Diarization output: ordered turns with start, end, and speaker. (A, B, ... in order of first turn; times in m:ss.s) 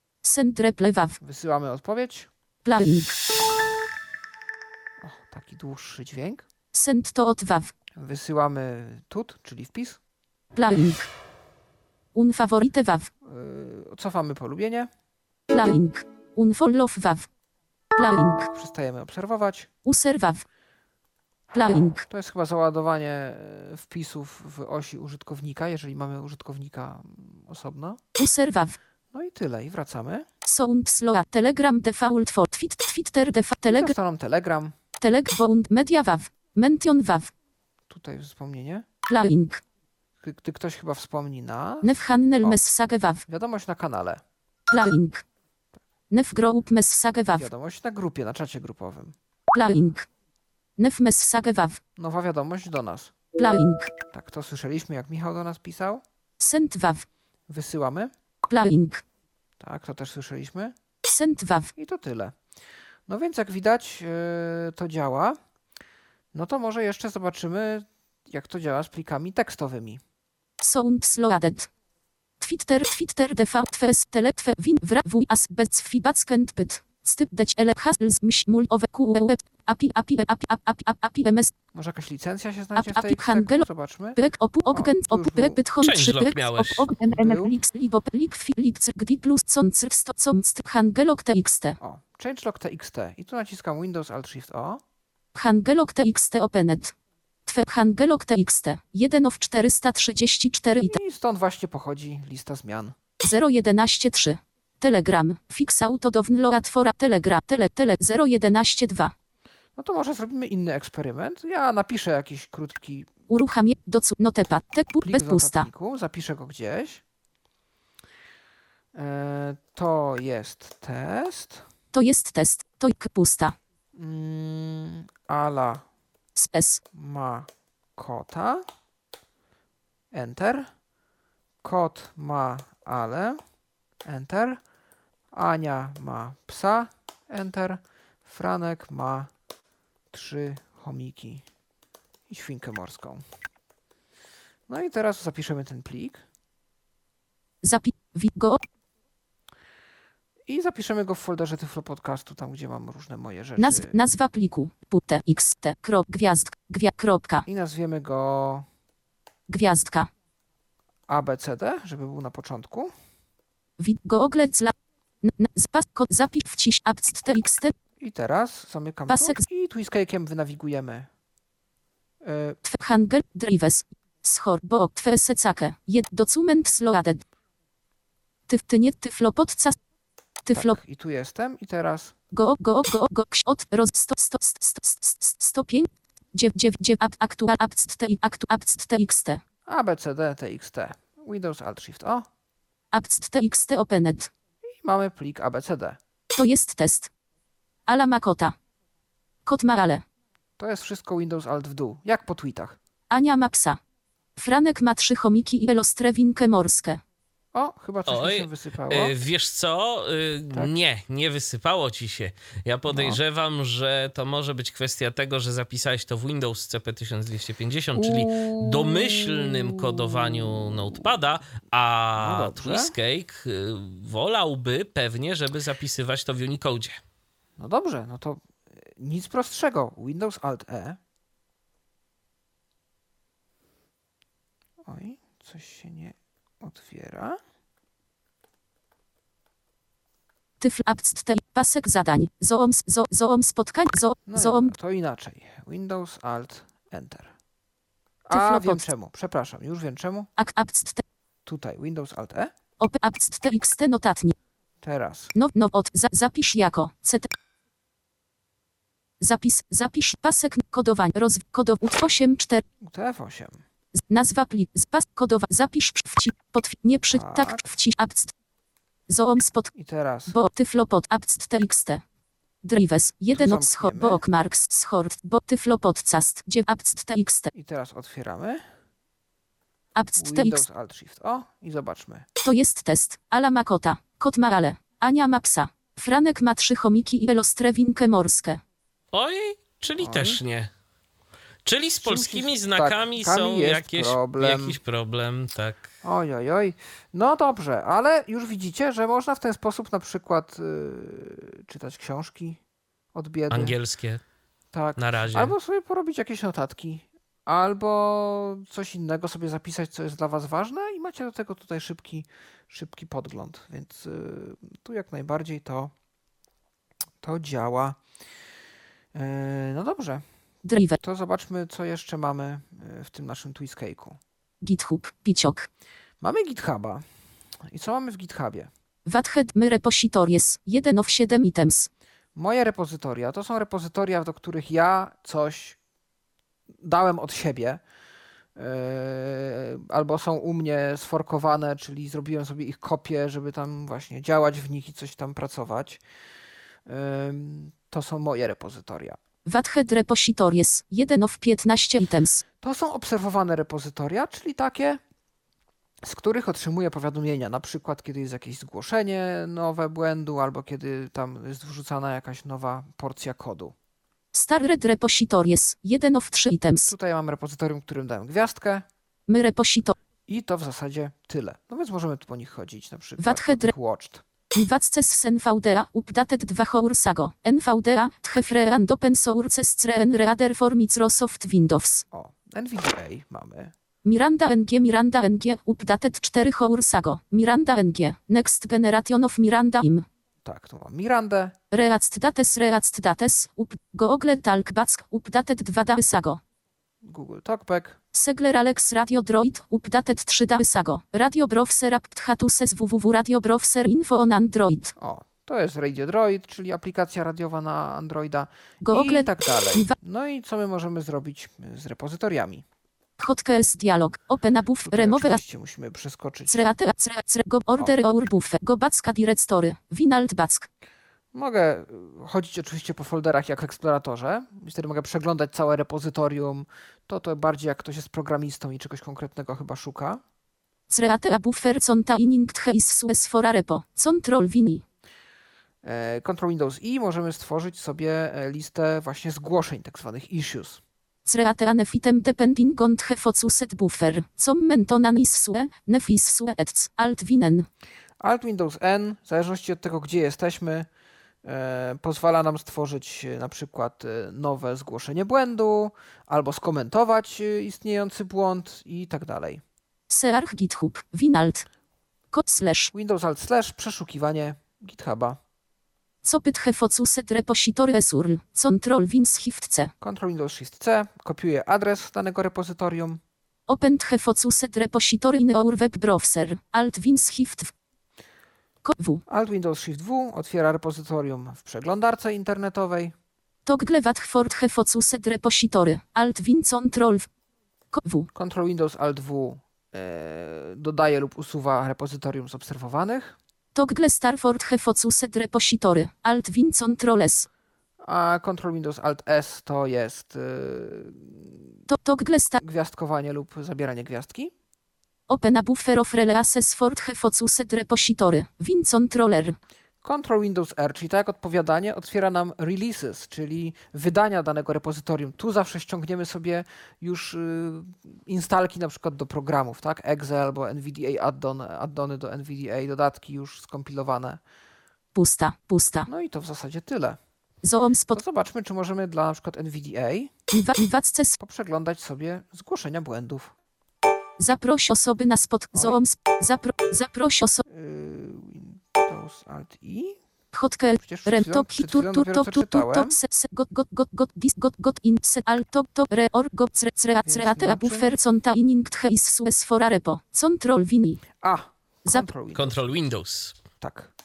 0:00.2-0:01.2 A
0:01.2-0:02.3 B
0:02.6-0:03.2 A
0:05.0-0:06.4 B
0:06.7-0:07.7 A
0:08.0-0:10.0 B
0:10.5-0:11.1 A
0:12.2-0:13.1 A
0:13.2-0:14.9 B
0:15.5-0:17.3 A
0:18.0-0:18.5 A
0:18.5-0:19.7 B
0:19.8-0:20.5 A
0:21.5-0:22.1 A
0:22.1-0:28.0 B
0:28.2-0:28.8 A
0:29.1-0:30.3 B
0:30.5-0:33.9 A
0:33.7-0:34.8 B
0:35.0-0:37.3 A
0:37.9-0:38.8 B
0:39.0-0:39.6 A
0:40.2-0:42.6 B
0:41.8-0:43.2 A
0:43.3-0:44.2 B
0:44.7-0:45.2 A
0:46.1-0:47.5 A
0:47.3-0:49.2 B
0:49.5-0:50.1 A
0:50.8-0:51.8 A
0:52.0-0:53.2 B
0:53.4-0:54.0 A
0:54.1-0:56.0 B
0:56.4-0:57.1 A
0:57.5-0:58.1 B
0:58.5-0:59.0 A
0:59.6-1:00.8 B
1:01.0-1:01.7 A
1:01.8-1:02.4 B
1:03.1-1:05.4 B
1:06.3-1:10.0 B
1:10.6-1:11.7 A
1:12.4-1:21.5 A
1:21.7-1:24.2 B
1:22.8-1:31.8 A
1:24.7-1:25.6 B
1:25.8-1:26.9 C
1:27.0-1:27.6 B
1:31.8-1:34.8 B
1:35.4-1:37.0 A
1:37.5-1:41.0 A
1:40.8-1:43.0 B
1:43.2-1:49.1 A
1:49.8-1:53.1 B
1:53.3-1:55.7 A
1:55.0-1:57.0 B
1:58.9-2:01.7 B
2:01.9-2:03.6 A
2:04.0-2:05.8 B
2:06.4-2:06.8 A
2:06.9-2:08.6 B
2:10.1-2:10.7 B
2:11.6-2:13.4 B
2:14.0-2:14.6 B
2:15.3-2:19.3 B
2:20.1-2:21.4 B
2:22.3-2:23.2 B
2:24.7-2:26.2 B
2:27.6-2:28.6 A
2:30.5-2:34.0 B
2:33.6-2:37.5 A
2:37.5-2:38.7 B
2:39.5-2:40.1 A
2:41.1-2:42.9 B
2:43.8-2:47.7 A
2:48.0-2:51.1 B
2:49.1-2:49.4 A
2:52.2-2:52.6 B
2:52.6-2:57.2 A
2:58.5-2:59.8 A
3:00.4-3:00.8 A
3:00.5-3:02.2 B
3:02.3-3:09.4 A
3:09.7-3:12.3 B
3:12.9-3:14.3 A
3:14.8-3:16.0 B
3:16.3-3:17.1 A
3:17.9-3:18.6 A
3:19.5-3:20.0 A
3:20.6-3:22.8 B
3:23.1-3:23.8 A
3:24.4-3:27.0 A
3:27.5-3:29.2 B
3:28.1-3:47.0 C
3:32.9-3:33.2 B
3:38.0-3:41.0 B
3:42.2-3:42.9 B
3:47.6-3:51.0 B
3:54.8-3:57.4 B
4:00.6-4:04.7 A
4:04.3-4:07.3 B
4:08.3-4:10.3 B
4:08.3-4:08.8 A
4:10.4-4:11.0 A
4:11.4-4:12.5 B
4:12.8-4:14.4 A
4:14.8-4:15.3 B
4:15.3-4:17.3 A
4:19.2-4:22.6 A
4:22.8-4:23.6 B
4:24.0-4:28.3 A
4:27.1-4:27.6 B
4:29.1-4:29.7 A
4:29.7-4:30.4 B
4:30.3-4:32.0 A
4:32.6-4:37.5 A
4:33.3-4:34.2 B
4:37.5-4:38.6 B
4:40.0-4:40.6 A
4:40.2-4:42.3 B
4:42.4-4:48.6 A
4:49.1-4:50.7 C
4:50.0-4:50.4 B
4:51.6-4:55.9 C
4:52.0-4:54.8 B
4:56.0-5:02.6 B
5:03.1-5:03.8 B
5:03.5-5:04.2 C
5:04.7-5:15.9 B
5:05.0-5:05.5 C
5:17.2-5:18.0 B
5:19.1-5:20.2 B
5:20.6-5:21.0 A
5:21.0-5:24.2 B
5:24.6-5:25.7 A
5:26.2-5:27.0 B
5:27.7-5:28.7 B
5:29.1-5:31.9 A
5:32.4-5:35.8 B
5:36.8-5:37.8 B
5:38.6-5:46.0 B
5:46.9-5:49.2 B
5:49.5-5:52.4 A
5:52.6-5:55.0 B
5:56.0-6:03.8 B
6:04.3-6:06.9 A
6:06.8-6:08.8 B
6:09.3-6:10.0 A
6:10.3-6:14.2 B
6:13.2-6:13.7 A
6:14.5-6:22.0 A
6:22.1-6:23.7 B
6:24.0-6:30.1 A
6:30.4-6:31.6 B
6:31.7-6:36.4 A
6:37.0-6:38.0 B
6:38.1-6:44.9 A
6:45.0-6:52.6 B
6:48.8-6:50.0 A
6:53.2-6:55.4 A
6:54.8-6:56.7 B
6:56.5-7:00.7 A
7:01.3-7:10.2 B
7:10.9-7:14.8 A
7:15.8-7:20.8 B
7:21.3-7:27.7 A
7:28.2-7:30.9 B
7:31.4-7:39.6 B
7:40.1-7:41.7 A
7:42.3-7:42.9 A
7:42.9-7:45.4 B
7:46.2-7:49.9 A
7:50.0-7:53.2 B
7:53.7-7:57.7 A
7:58.8-7:59.2 A
7:59.3-8:03.1 B
8:03.7-8:07.3 A
8:07.9-8:08.3 A
8:08.4-8:13.4 B
8:13.8-8:17.5 A
8:18.0-8:21.7 B
8:21.9-8:22.6 A
8:22.6-8:24.5 B
8:25.3-8:29.6 A
8:30.0-8:44.4 B
8:45.1-8:46.1 A
8:46.1-8:47.2 B
8:47.6-8:48.2 A
8:48.1-8:50.3 B
8:50.5-8:51.4 A
8:51.4-8:53.5 B
8:54.4-8:57.6 A
8:55.7-8:56.0 B
8:57.6-9:00.2 B
9:00.5-9:11.2 A
9:01.0-9:03.2 B
9:07.2-9:08.1 B
9:11.4-9:12.8 B
9:12.5-9:13.6 C
9:13.8-9:14.1 B